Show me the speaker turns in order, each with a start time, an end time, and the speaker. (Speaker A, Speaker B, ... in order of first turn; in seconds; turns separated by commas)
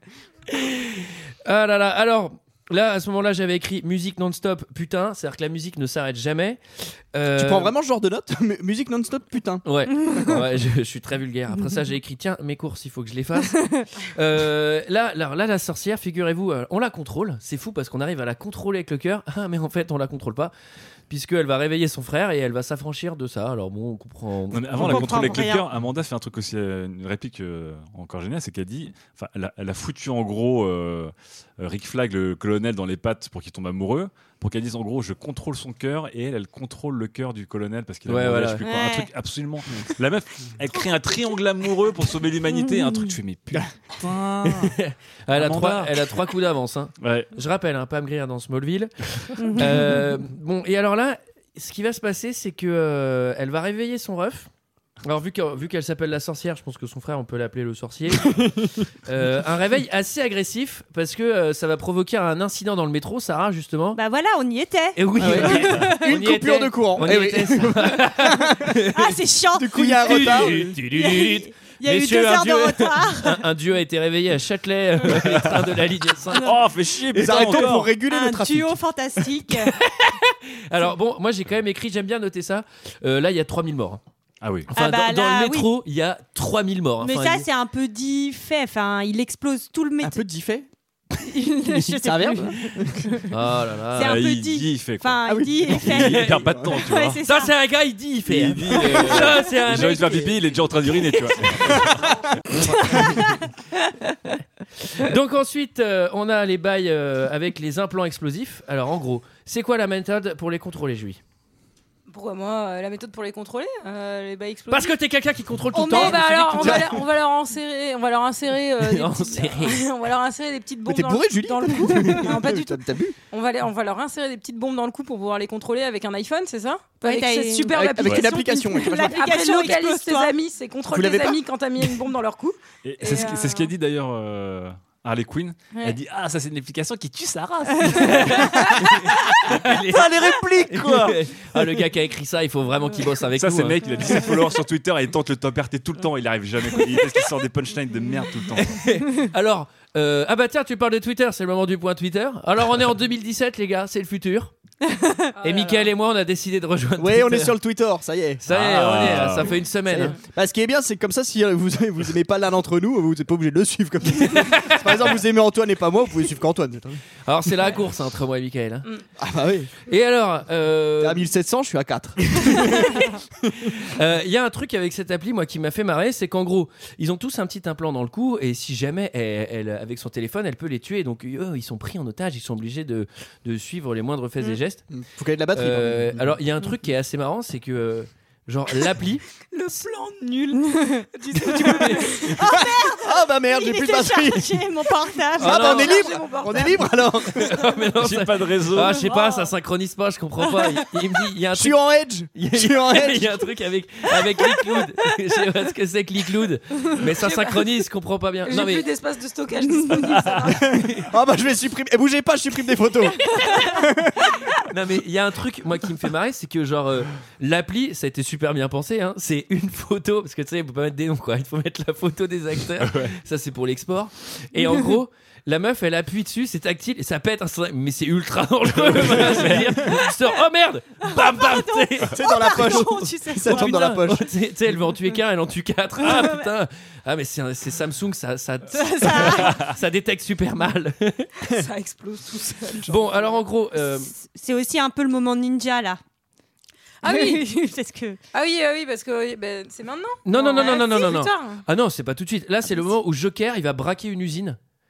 Speaker A: 0.6-6.6, Speaker A: 7.1-7.7, Speaker B: 7.3-10.2, Speaker A: 9.6-20.5, Speaker A: 21.1-25.2, Speaker C: 24.5-44.8, Speaker D: 24.8-25.7, Speaker A: 38.1-38.6, Speaker D: 38.6-39.1, Speaker A: 44.4-54.5, Speaker C: 45.3-46.1, Speaker C: 47.0-47.3, Speaker D: 49.4-50.1, Speaker A: 55.0-58.5, Speaker B: 58.2-58.7, Speaker A: 59.0-64.0, Speaker D: 63.9-66.0, Speaker A: 65.0-69.1, Speaker B: 65.2-68.8, Speaker D: 68.9-73.4, Speaker B: 69.5-70.8, Speaker A: 69.7-76.5, Speaker C: 75.1-75.7, Speaker C: 76.3-77.9, Speaker B: 77.1-78.8, Speaker D: 77.9-79.7, Speaker A: 79.7-84.0, Speaker C: 84.4-84.7, Speaker A: 84.7-87.5, Speaker D: 84.7-85.7, Speaker D: 87.0-90.2, Speaker B: 90.0-90.7, Speaker D: 91.2-93.2, Speaker B: 91.6-93.1, Speaker A: 93.3-94.2, Speaker D: 94.0-97.5, Speaker C: 94.0-97.2, Speaker B: 95.2-96.8, Speaker A: 95.8-96.3, Speaker A: 97.2-101.8, Speaker C: 98.3-102.3, Speaker B: 102.5-103.2, Speaker D: 102.9-103.2, Speaker A: 104.9-111.2, Speaker E: 112.1-115.0, Speaker A: 114.7-116.9, Speaker D: 115.7-116.3, Speaker E: 115.8-133.7, Speaker B: 116.6-116.9, Speaker A: 118.8-119.8, Speaker B: 120.8-123.2, Speaker D: 127.0-127.9, Speaker B: 127.7-129.3, Speaker D: 128.4-130.3, Speaker B: 130.9-131.4, Speaker C: 132.8-138.8, Speaker A: 137.9-144.1, Speaker C: 139.4-141.2, Speaker C: 143.3-148.8, Speaker A: 148.6-154.5, Speaker D: 154.9-155.2, Speaker E: 155.3-155.9, Speaker A: 155.4-157.6, Speaker B: 157.0-158.4, Speaker A: 158.4-160.2, Speaker C: 158.5-159.6, Speaker B: 159.9-167.0, Speaker A: 164.2-164.8, Speaker A: 167.2-168.9, Speaker B: 169.2-169.7, Speaker A: 169.9-171.2, Speaker B: 171.0-173.7, Speaker A: 173.7-184.8, Speaker B: 184.9-186.3, Speaker A: 185.5-189.2, Speaker E: 189.5-192.4, Speaker D: 190.7-191.0, Speaker A: 191.5-192.1, Speaker B: 192.3-194.7, Speaker D: 192.3-196.0, Speaker B: 195.3-197.6, Speaker A: 195.4-195.9, Speaker E: 195.6-197.2, Speaker A: 196.9-201.8, Speaker C: 198.0-199.0, Speaker E: 199.0-199.5, Speaker B: 201.5-203.4, Speaker A: 202.3-208.9, Speaker E: 207.2-207.7, Speaker E: 208.5-210.8, Speaker A: 210.7-211.1, Speaker B: 210.7-214.3, Speaker A: 214.5-232.8, Speaker C: 222.8-223.2, Speaker C: 228.8-229.9, Speaker D: 231.0-233.7, Speaker B: 232.1-234.3, Speaker A: 233.4-241.3, Speaker D: 236.0-236.5, Speaker D: 238.7-239.6, Speaker E: 241.4-243.4, Speaker A: 242.8-244.1, Speaker D: 244.1-246.0, Speaker E: 247.0-247.7, Speaker D: 247.0-248.2, Speaker E: 248.3-251.6, Speaker A: 250.2-254.6, Speaker D: 250.6-250.8